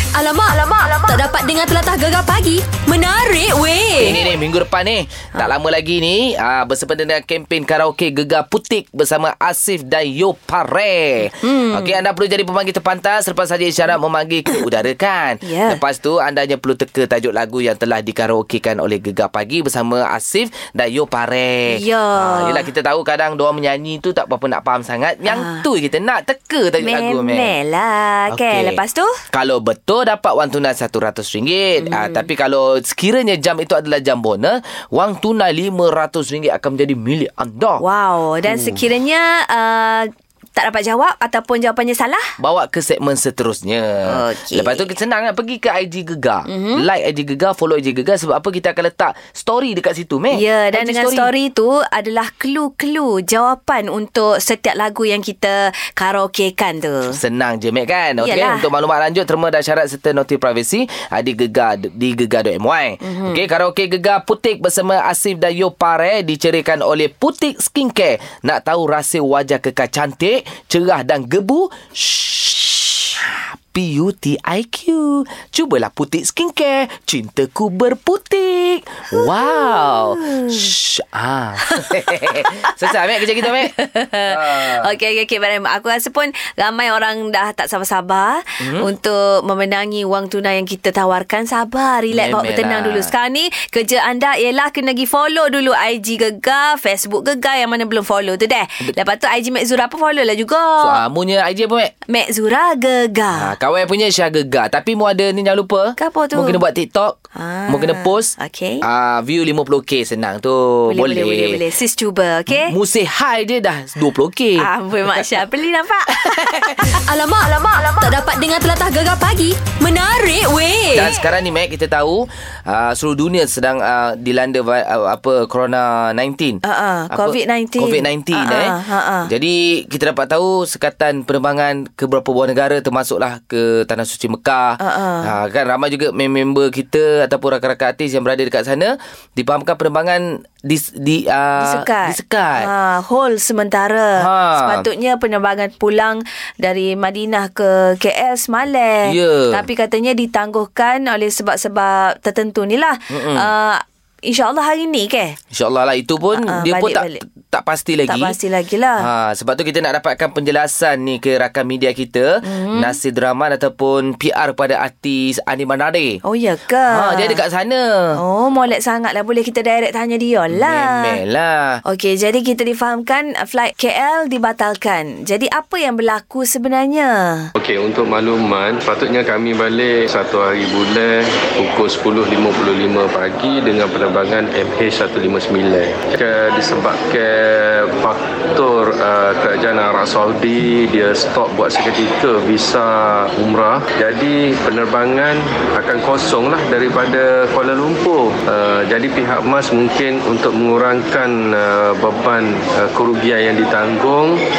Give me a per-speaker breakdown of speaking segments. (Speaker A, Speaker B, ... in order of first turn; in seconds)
Speaker A: 0.1-4.2, 117.0-121.1
Speaker B: 4.0-27.5, 28.3-28.8, 29.3-37.8, 38.5-38.8, 42.4-51.3, 57.1-84.9, 88.6-88.9, 92.1-93.1, 100.8-101.9, 103.3-111.6, 112.5-115.3, 116.1-117.0, 120.9-142.7, 144.2-144.8, 149.1-149.6, 153.1-153.5, 155.5-158.3, 159.0-166.2, 166.9-167.8, 170.5-171.8
Speaker C: 11.4-12.0, 15.4-15.8, 21.7-22.7, 25.2-25.6, 26.8-29.2, 31.8-32.2, 37.8-42.3, 44.0-44.9, 46.5-46.9, 50.3-57.2, 58.2-58.6, 63.0-63.4, 79.1-80.6, 81.6-82.9, 83.4-101.0, 102.1-103.5, 106.0-106.6, 107.3-108.8, 110.9-112.7, 114.6-117.0, 126.6-129.3, 134.8-135.3, 141.6-155.4, 156.3-157.2, 158.1-159.1, 162.4-163.0, 166.2-167.4, 168.2-171.1, 171.8-177.5
Speaker D: 177.6-204.4